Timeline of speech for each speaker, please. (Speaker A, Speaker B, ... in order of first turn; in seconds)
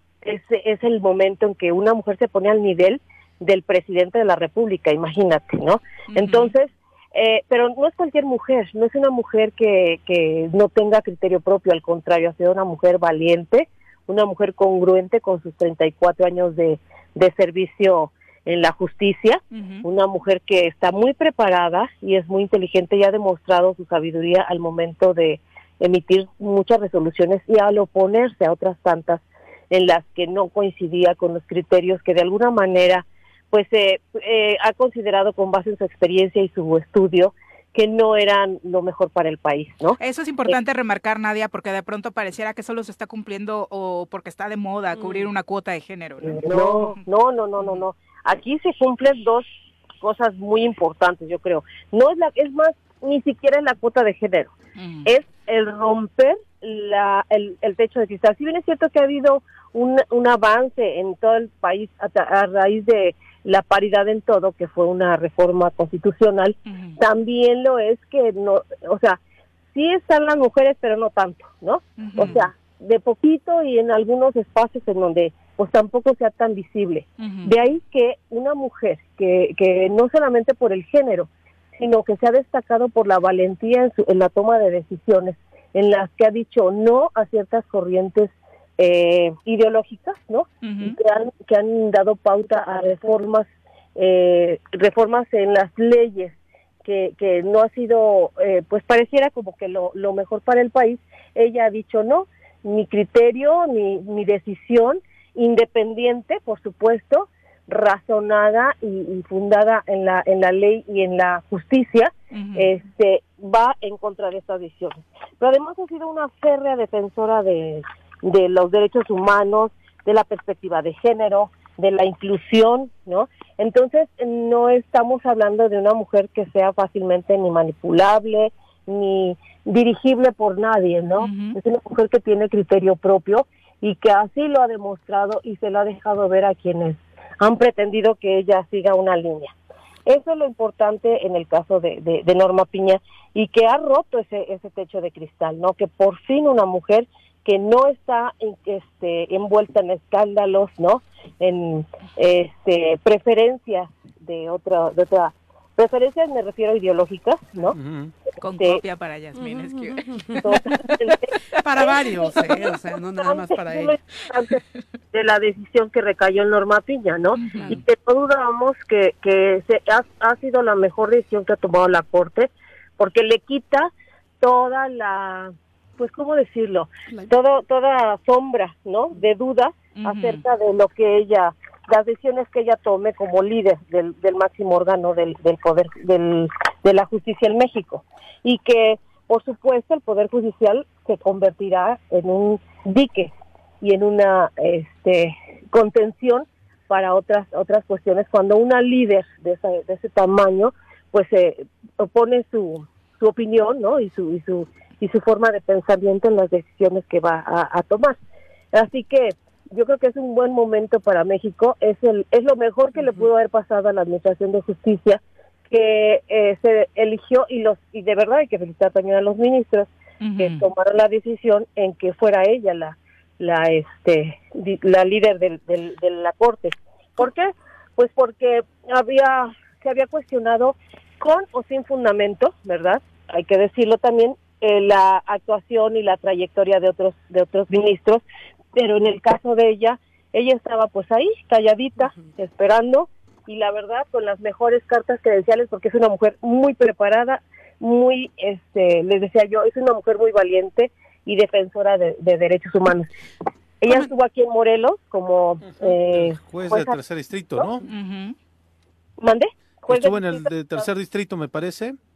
Speaker A: 0.2-40.5, 46.2-49.5, 50.0-54.5, 55.0-69.2, 69.7-139.5, 140.1-157.8, 160.4-162.6, 163.2-164.6, 165.1-173.9, 174.4-208.2, 208.7-238.2, 238.8-253.1, 253.8-257.0, 259.2-260.9
Speaker B: 6.1-6.5, 19.5-19.9, 40.0-47.0, 54.8-55.1, 66.7-67.0, 72.0-72.5, 77.2-77.6, 90.6-91.0, 112.3-112.7, 131.2-131.6, 158.4-161.6, 167.4-167.8, 180.0-180.4, 220.2-220.7, 257.9-258.4
Speaker C: 157.8-158.1, 255.6-257.8, 259.9-262.0
Speaker D: 159.4-160.6, 161.6-163.9, 167.5-167.8, 242.0-242.3